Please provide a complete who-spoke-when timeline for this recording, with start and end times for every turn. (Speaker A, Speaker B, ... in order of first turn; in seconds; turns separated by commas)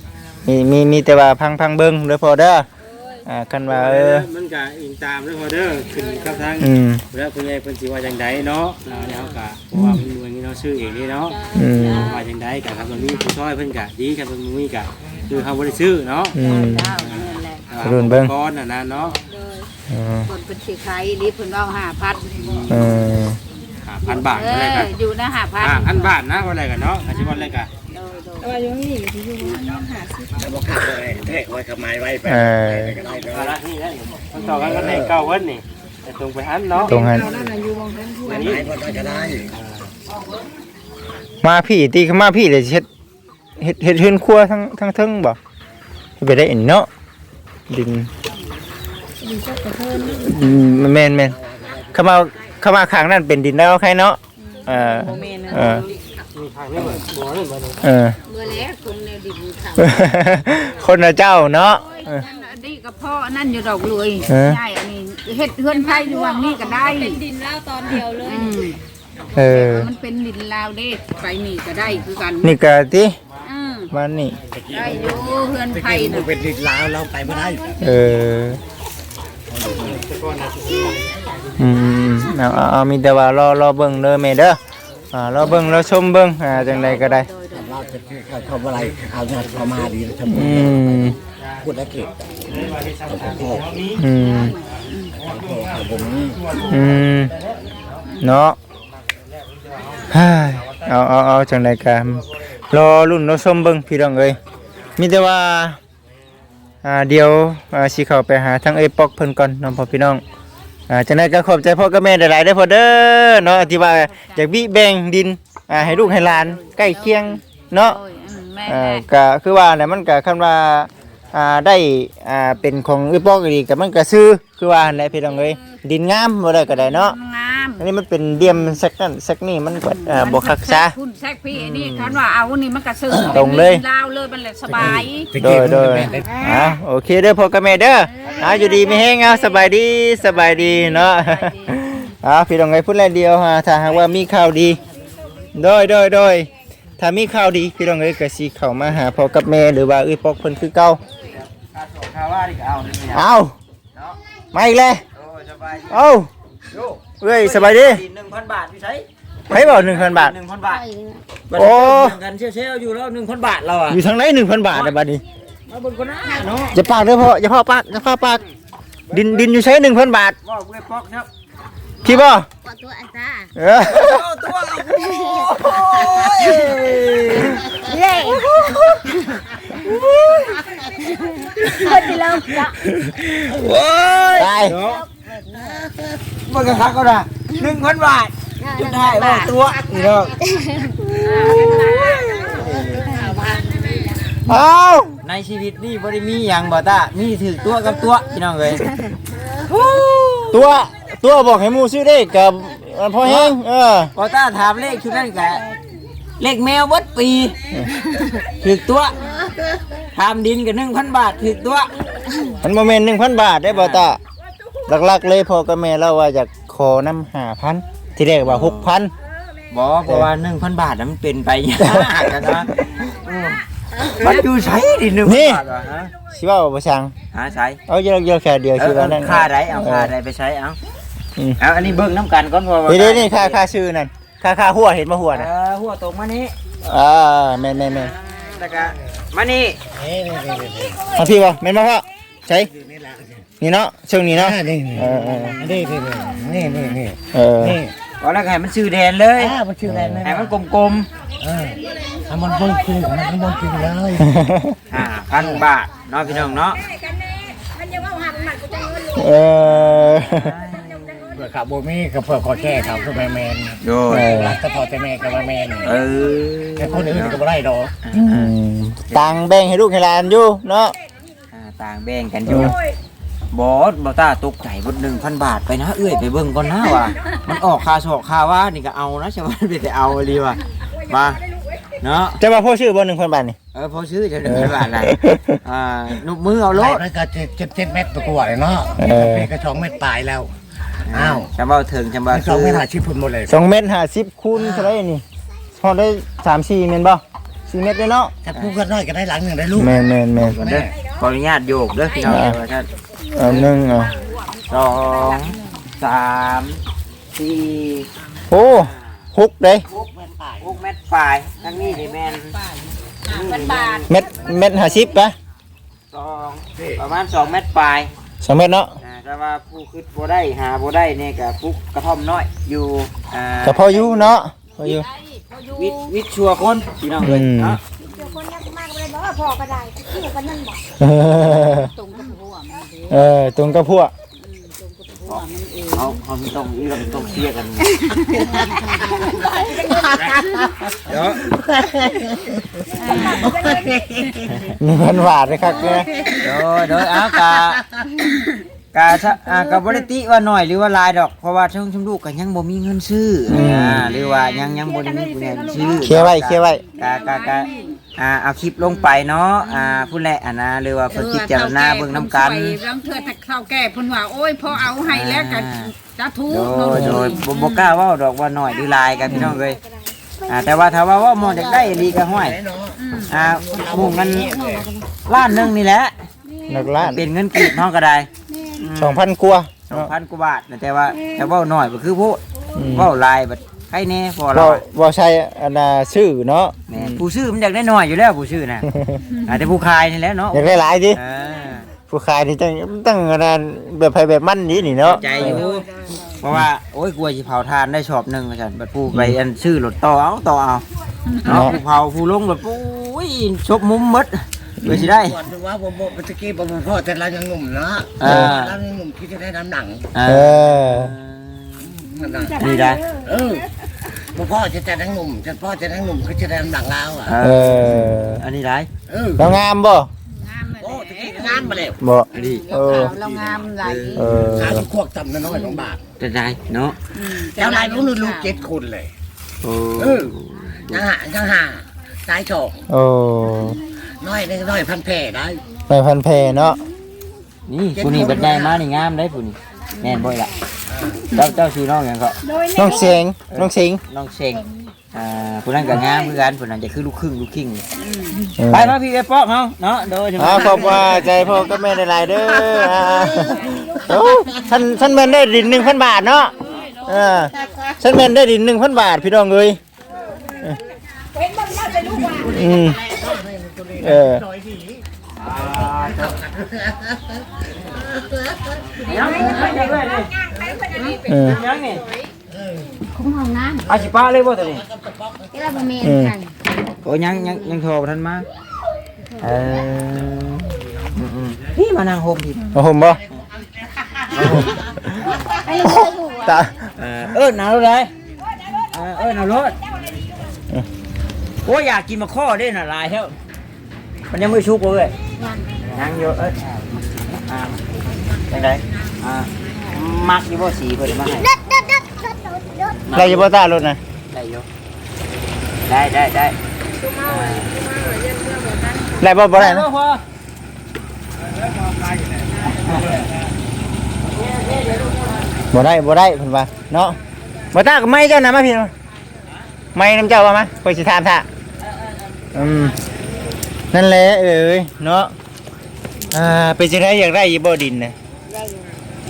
Speaker A: 0.5-2.7, Speaker A: 3.3-4.3, Speaker B: 3.7-16.4, Speaker A: 6.6-7.0, Speaker A: 9.7-10.0, Speaker A: 11.6-12.2, Speaker A: 16.4-17.0, Speaker C: 16.4-17.6, Speaker B: 17.1-19.2, Speaker A: 17.8-18.3, Speaker C: 19.3-19.7, Speaker A: 19.9-20.3, Speaker C: 20.3-22.4, Speaker B: 22.4-22.9, Speaker A: 22.7-23.4, Speaker B: 23.9-24.9, Speaker C: 24.0-26.2, Speaker B: 25.6-27.7, Speaker C: 27.1-28.6, Speaker D: 28.4-30.3, Speaker C: 29.5-29.7, Speaker E: 30.4-33.5, Speaker A: 32.3-33.0, Speaker B: 33.3-37.5, Speaker E: 34.6-35.1, Speaker A: 36.9-37.3, Speaker D: 37.0-38.5, Speaker B: 38.2-38.8, Speaker E: 38.4-39.5, Speaker A: 41.4-42.9, Speaker A: 43.6-45.4, Speaker A: 46.2-46.9, Speaker A: 47.7-48.1, Speaker D: 49.2-50.1, Speaker A: 50.0-51.4, Speaker E: 51.4-51.9, Speaker A: 51.9-55.9, Speaker D: 54.9-55.6, Speaker B: 56.3-57.8, Speaker A: 57.8-58.2, Speaker C: 58.3-59.8, Speaker A: 59.8-62.2, Speaker C: 62.0-67.3, Speaker A: 64.3-64.6, Speaker C: 67.8-68.8, Speaker A: 69.3-69.9, Speaker C: 69.5-72.5, Speaker A: 72.4-73.2, Speaker C: 73.4-73.9, Speaker A: 73.9-74.4, Speaker E: 74.5-77.8, Speaker C: 74.7-76.3, Speaker A: 77.8-78.6, Speaker E: 79.5-80.0, Speaker B: 79.9-81.2, Speaker A: 81.6-84.6, Speaker A: 85.1-87.3, Speaker C: 87.1-87.5, Speaker E: 87.5-91.1, Speaker B: 89.5-89.9, Speaker A: 90.3-91.2, Speaker E: 91.6-92.1, Speaker B: 92.5-94.0, Speaker E: 93.1-93.7, Speaker A: 94.0-94.5, Speaker C: 94.2-95.1, Speaker E: 95.2-96.4, Speaker B: 95.2-97.5, Speaker A: 96.7-97.3, Speaker A: 98.2-98.6, Speaker A: 100.1-104.4, Speaker A: 105.0-105.8, Speaker A: 106.8-110.2, Speaker A: 110.9-118.0, Speaker C: 113.5-114.4, Speaker C: 115.8-119.0, Speaker A: 118.7-127.2, Speaker C: 125.3-125.8, Speaker C: 126.7-127.8, Speaker A: 127.8-130.9, Speaker C: 129.8-135.3, Speaker A: 131.5-132.2, Speaker A: 133.3-133.8, Speaker E: 134.8-136.5, Speaker A: 134.8-144.8, Speaker A: 145.6-151.0, Speaker F: 151.3-153.3, Speaker A: 153.1-153.6, Speaker A: 154.5-155.0, Speaker F: 155.2-156.0, Speaker A: 155.9-156.3, Speaker F: 156.7-160.8, Speaker A: 157.2-158.0, Speaker A: 159.5-160.4, Speaker G: 160.7-161.2, Speaker F: 161.5-164.0, Speaker A: 161.6-162.2, Speaker A: 163.9-165.2, Speaker F: 165.7-166.8, Speaker A: 166.7-168.4, Speaker F: 169.1-169.5, Speaker A: 169.1-170.4, Speaker F: 170.4-171.3, Speaker A: 172.0-172.5, Speaker G: 172.1-173.5, Speaker A: 173.6-174.2, Speaker F: 173.8-177.6, Speaker G: 174.9-176.6, Speaker G: 177.4-179.5, Speaker A: 180.0-180.4, Speaker G: 180.8-182.8, Speaker F: 183.5-185.0, Speaker A: 184.4-184.8, Speaker G: 184.8-185.9, Speaker F: 186.4-190.3, Speaker G: 188.6-189.6, Speaker G: 190.4-194.1, Speaker F: 192.5-192.9, Speaker A: 194.5-195.2, Speaker F: 195.2-198.9, Speaker F: 199.7-200.8, Speaker A: 200.5-204.1, Speaker F: 203.2-203.6, Speaker F: 204.2-205.6, Speaker F: 206.4-207.6, Speaker F: 208.4-209.2, Speaker F: 210.1-211.9, Speaker A: 212.6-214.2, Speaker F: 213.7-214.1, Speaker A: 214.9-219.1, Speaker F: 218.4-218.9, Speaker F: 219.7-226.1, Speaker A: 221.8-222.7, Speaker A: 225.2-225.6, Speaker A: 226.3-227.1, Speaker F: 227.3-227.8, Speaker A: 227.9-230.1, Speaker F: 228.8-230.8, Speaker F: 231.6-233.6, Speaker A: 232.9-235.5, Speaker F: 235.3-236.5, Speaker A: 236.9-238.1, Speaker F: 238.4-239.8, Speaker E: 239.9-241.1, Speaker A: 241.1-242.7, Speaker E: 242.7-243.4, Speaker A: 243.6-245.6, Speaker E: 244.4-245.1, Speaker F: 245.0-245.9, Speaker E: 245.6-247.9, Speaker A: 247.3-247.8, Speaker F: 248.2-249.6, Speaker E: 249.4-250.5, Speaker A: 249.8-250.2, Speaker F: 250.2-251.1, Speaker E: 251.4-254.3, Speaker A: 254.2-254.8, Speaker F: 254.9-256.9, Speaker E: 255.4-255.6, Speaker E: 256.2-256.5, Speaker A: 259.1-260.5, Speaker F: 259.6-261.4, Speaker E: 261.4-266.0, Speaker F: 263.8-264.3, Speaker A: 264.1-264.6, Speaker F: 265.8-267.4, Speaker E: 266.8-267.9, Speaker F: 268.0-268.5, Speaker A: 268.1-270.9, Speaker F: 269.1-269.4, Speaker F: 271.5-272.8, Speaker A: 272.5-272.8, Speaker F: 273.5-281.4, Speaker F: 282.0-282.4, Speaker A: 282.4-283.6, Speaker F: 283.7-287.1, Speaker A: 284.4-285.6, Speaker E: 286.7-290.5, Speaker A: 289.0-289.5, Speaker F: 291.1-292.9, Speaker E: 291.1-291.5, Speaker E: 292.3-293.5, Speaker A: 293.5-295.2, Speaker E: 294.5-294.9, Speaker A: 295.8-298.3, Speaker E: 298.5-300.0, Speaker A: 299.8-300.6, Speaker F: 300.4-304.0, Speaker E: 300.6-300.9, Speaker A: 302.3-302.6, Speaker A: 303.3-304.1, Speaker C: 304.1-304.4, Speaker F: 304.7-306.8, Speaker F: 307.3-308.1, Speaker A: 308.5-309.9, Speaker F: 308.7-309.3, Speaker F: 309.9-312.6, Speaker E: 310.1-310.7, Speaker C: 313.2-314.1, Speaker F: 313.2-315.1, Speaker A: 314.1-315.3, Speaker F: 316.1-318.1, Speaker A: 318.4-318.9, Speaker F: 319.0-324.3, Speaker A: 323.6-325.1, Speaker C: 324.8-326.1, Speaker F: 325.7-327.8, Speaker A: 327.2-327.8, Speaker C: 328.1-328.5, Speaker A: 331.0-331.9, Speaker C: 331.5-333.2, Speaker A: 333.1-334.1, Speaker C: 334.4-336.2, Speaker F: 335.3-337.9, Speaker C: 338.6-339.1, Speaker E: 339.6-340.1, Speaker F: 341.1-341.5, Speaker E: 341.6-342.3, Speaker C: 343.0-344.3, Speaker E: 343.3-344.2, Speaker F: 344.5-344.8, Speaker A: 344.8-346.1, Speaker G: 345.7-346.3, Speaker F: 346.4-347.8, Speaker F: 348.9-362.8, Speaker A: 353.5-354.1, Speaker C: 354.2-354.8, Speaker G: 355.3-356.0, Speaker A: 356.0-356.8, Speaker C: 356.8-358.0, Speaker C: 358.8-360.1, Speaker C: 361.1-367.9, Speaker F: 364.7-365.9, Speaker F: 366.5-369.8, Speaker A: 366.9-367.3, Speaker A: 369.3-369.6, Speaker F: 370.5-372.6, Speaker E: 371.9-374.9, Speaker C: 373.0-373.4, Speaker F: 373.3-374.5, Speaker G: 374.4-374.9, Speaker F: 375.3-376.1, Speaker A: 376.7-377.2, Speaker F: 377.0-379.2, Speaker A: 379.0-380.1, Speaker F: 379.9-382.4, Speaker A: 382.8-383.1, Speaker F: 382.9-384.8, Speaker A: 384.5-387.2, Speaker F: 386.9-388.9, Speaker A: 388.9-389.2, Speaker F: 389.5-391.9, Speaker A: 390.5-391.2, Speaker A: 392.1-395.7, Speaker F: 394.8-395.9, Speaker C: 395.3-395.8, Speaker F: 396.4-400.9, Speaker A: 399.1-399.4, Speaker C: 401.3-401.7, Speaker F: 401.4-405.4, Speaker A: 401.5-401.8, Speaker A: 404.8-405.1, Speaker E: 405.1-410.1, Speaker F: 408.2-408.8, Speaker A: 408.2-408.5, Speaker F: 410.1-411.9, Speaker A: 410.2-411.1, Speaker E: 411.8-412.6, Speaker F: 412.6-413.0, Speaker E: 413.2-413.7, Speaker E: 414.2-417.3, Speaker F: 417.3-418.9, Speaker A: 417.4-418.4, Speaker E: 419.1-419.5, Speaker A: 419.4-420.1, Speaker C: 420.3-424.2, Speaker E: 420.8-422.0, Speaker A: 422.0-423.1, Speaker F: 422.3-422.7, Speaker B: 423.1-423.6, Speaker F: 423.2-424.3, Speaker A: 424.1-424.9, Speaker E: 424.3-426.0, Speaker C: 425.5-425.8, Speaker F: 426.2-427.0, Speaker C: 427.1-428.5, Speaker E: 427.5-429.1, Speaker F: 429.6-431.1, Speaker E: 430.0-430.3, Speaker E: 430.9-432.8, Speaker A: 432.9-433.8, Speaker E: 434.2-435.6, Speaker A: 435.9-436.8, Speaker F: 437.7-440.5, Speaker E: 437.9-438.8, Speaker G: 440.0-440.3, Speaker F: 441.3-442.4, Speaker G: 442.6-443.1, Speaker A: 442.7-444.0, Speaker F: 443.5-447.8, Speaker C: 448.0-448.4, Speaker A: 448.4-449.0, Speaker F: 448.7-451.7, Speaker A: 450.4-459.8, Speaker A: 462.4-463.0, Speaker E: 463.1-465.0, Speaker A: 464.0-464.4, Speaker F: 465.4-466.4, Speaker F: 469.0-470.3, Speaker G: 469.1-470.0, Speaker G: 470.8-471.3, Speaker A: 471.3-471.6, Speaker F: 471.4-472.1, Speaker G: 473.0-473.9, Speaker F: 473.9-474.9, Speaker G: 475.5-476.5, Speaker A: 476.0-476.4, Speaker F: 477.0-478.5, Speaker F: 479.4-482.7, Speaker A: 482.7-483.2, Speaker F: 484.4-484.7, Speaker G: 485.2-486.5, Speaker A: 486.4-486.8, Speaker F: 487.0-488.1, Speaker F: 488.9-489.8, Speaker F: 491.6-493.4, Speaker F: 494.3-495.1, Speaker G: 495.4-495.7, Speaker F: 495.9-497.8, Speaker F: 498.5-501.5, Speaker G: 501.6-502.8, Speaker F: 502.9-503.5, Speaker A: 503.1-504.0, Speaker F: 504.3-504.7, Speaker F: 505.9-506.6, Speaker F: 507.2-507.9, Speaker A: 509.2-509.9, Speaker F: 509.6-510.2, Speaker F: 512.8-513.2, Speaker F: 514.4-515.4, Speaker A: 515.7-517.2, Speaker A: 517.7-518.9, Speaker A: 520.0-521.5, Speaker A: 522.5-523.0, Speaker A: 523.9-525.3, Speaker A: 526.3-528.1, Speaker G: 528.5-529.0